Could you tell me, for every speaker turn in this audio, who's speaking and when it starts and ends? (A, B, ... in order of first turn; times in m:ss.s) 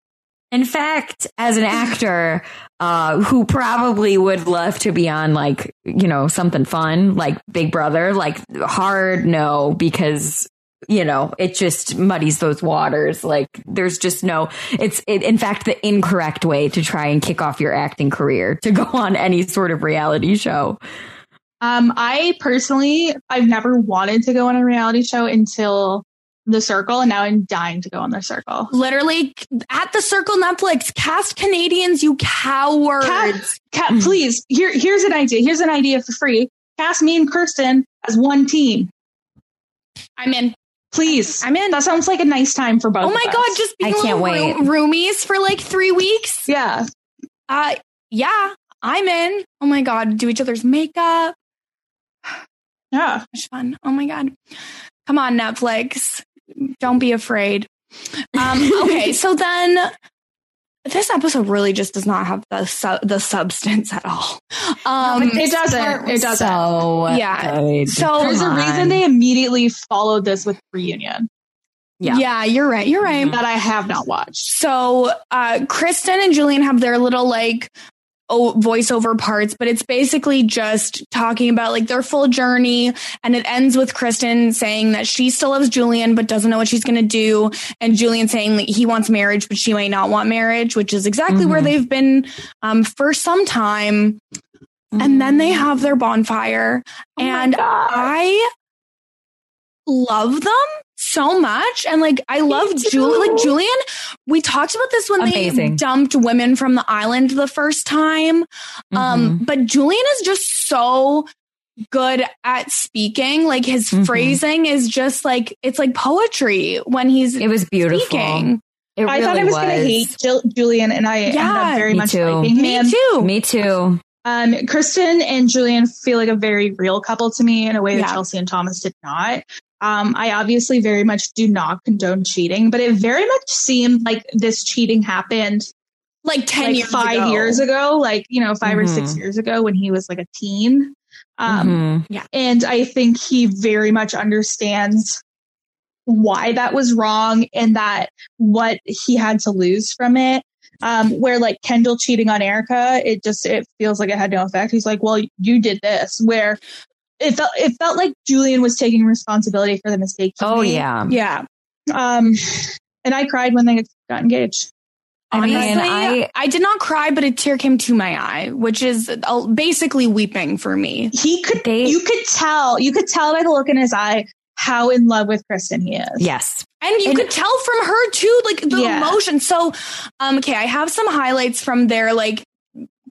0:00.5-0:20.8 A
0:21.6-0:28.7 B
0:28.7-0:33.5 C
0:33.0-0:38.9 B
0:33.9-0:34.2 A
0:40.2-0:40.5 C
0:40.9-0:43.6 B
0:41.1-0:41.8 C
0:43.0-0:46.5 C
0:43.8-0:44.7 A
0:46.5-0:46.9 B
0:47.5-0:51.3 C
0:52.9-0:53.2 B
0:53.3-0:54.3 C
0:55.0-0:57.7 C
0:58.2-0:59.9 C
0:58.4-0:59.1 A
1:00.8-1:06.3 C
1:05.0-1:06.7 B
1:06.3-1:09.0 A
1:07.1-1:08.4 C
1:08.2-1:11.3 B
1:12.0-1:13.4 C
1:13.0-1:13.4 A
1:13.3-1:14.5 B
1:14.5-1:17.7 C
1:18.3-1:34.2 C
1:31.3-1:31.7 A
1:34.9-1:35.7 A
1:35.0-1:38.5 C
1:37.2-1:38.1 A
1:39.9-1:51.3 C
1:42.5-1:43.5 A
1:45.2-1:45.8 A
1:48.9-1:49.4 A
1:51.9-1:58.6 C
1:53.9-1:54.4 A
1:57.4-2:00.1 A
1:59.0-2:03.0 B
2:01.3-2:01.9 C
2:01.9-2:02.5 A
2:02.5-2:03.3 C
2:03.2-2:04.0 A
2:04.2-2:15.7 B
2:07.9-2:08.2 C
2:16.2-2:17.6 C
2:16.6-2:25.2 B
2:18.6-2:19.2 A
2:21.5-2:22.0 A
2:26.1-2:36.6 B
2:37.2-2:40.8 B
2:40.4-2:41.1 A
2:41.1-2:41.4 C
2:41.9-2:44.7 B
2:45.3-2:46.3 A
2:45.3-2:51.1 C
2:45.4-2:45.8 B
2:51.1-2:56.3 B
2:51.6-2:52.0 A
2:56.2-2:56.6 A
2:56.8-3:02.5 C
2:58.7-2:59.2 B